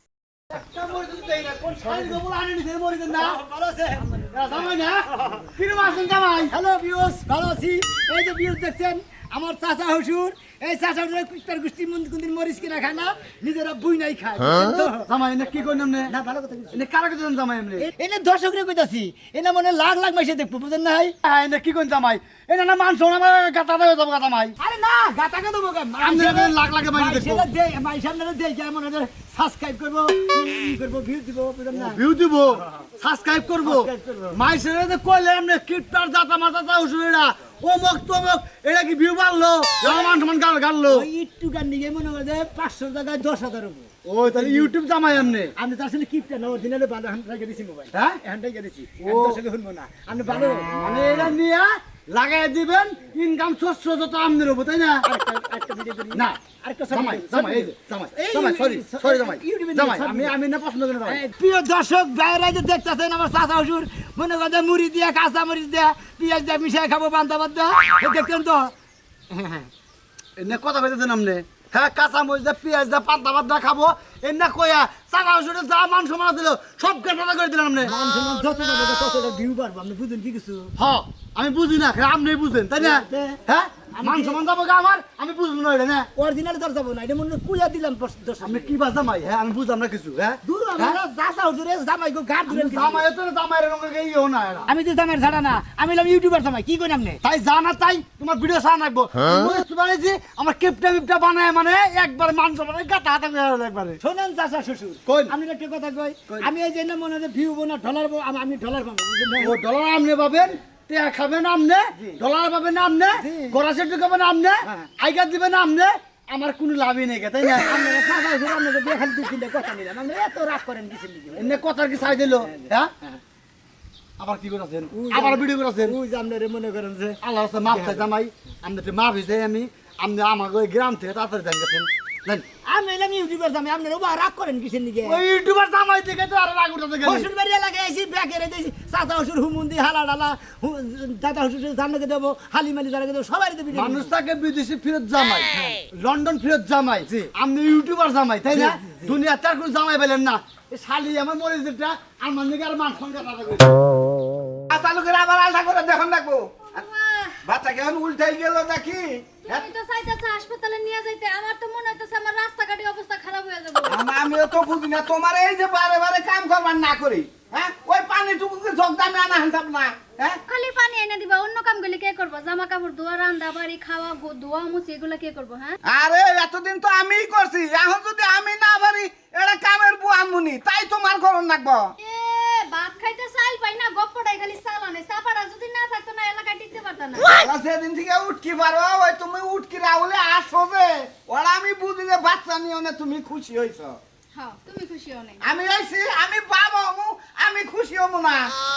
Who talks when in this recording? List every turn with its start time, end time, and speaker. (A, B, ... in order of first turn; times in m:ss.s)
0:00.5-0:03.4 A
0:01.8-0:02.2 B
0:03.2-0:04.1 B
0:04.3-0:06.5 A
0:05.1-0:05.5 B
0:06.5-0:15.1 B
0:15.1-0:16.1 A
0:16.1-0:16.8 B
0:16.7-0:17.9 A
0:17.8-0:21.2 B
0:21.2-0:24.6 A
0:24.6-0:32.0 B
0:26.0-0:27.5 A
0:31.7-0:41.1 A
0:33.6-0:34.4 B
0:39.8-0:40.3 B
0:40.9-0:43.9 B
0:44.0-0:45.5 A
0:45.6-0:50.9 B
0:47.9-0:48.2 A
0:49.0-0:49.4 A
0:50.4-0:55.1 A
0:55.0-1:00.4 B
0:56.1-0:56.4 A
0:56.9-1:01.2 A
1:01.1-1:08.7 B
1:09.3-1:09.7 B
1:10.4-1:17.9 A
1:17.8-1:20.7 B
1:20.8-1:26.1 A
1:22.8-1:23.4 B
1:23.9-1:24.4 B
1:26.2-1:28.8 B
1:28.4-1:31.0 A
1:30.4-1:33.1 B
1:32.5-1:34.7 A
1:34.7-1:37.2 B
1:37.2-1:44.0 A
1:44.0-1:49.6 B
1:45.1-1:45.3 A
1:49.4-1:57.7 A
1:53.1-1:53.6 B
1:57.6-2:01.6 B
2:01.4-2:02.9 A
2:02.2-2:03.2 B
2:04.2-2:06.0 A
2:04.9-2:08.1 B
2:07.2-2:12.5 A
2:12.6-2:15.2 B
2:15.0-2:17.3 A
2:17.0-2:24.1 B
2:23.7-2:33.8 A
2:28.5-2:29.2 B
2:34.7-2:36.8 C
2:36.8-2:37.4 D
2:37.4-2:39.7 C
2:39.5-2:44.0 D
2:43.8-2:50.4 C
2:50.5-2:55.7 D
2:55.9-3:01.9 C
3:02.0-3:07.3 D
3:07.2-3:14.0 C
3:14.4-3:15.4 D
3:15.4-3:18.5 C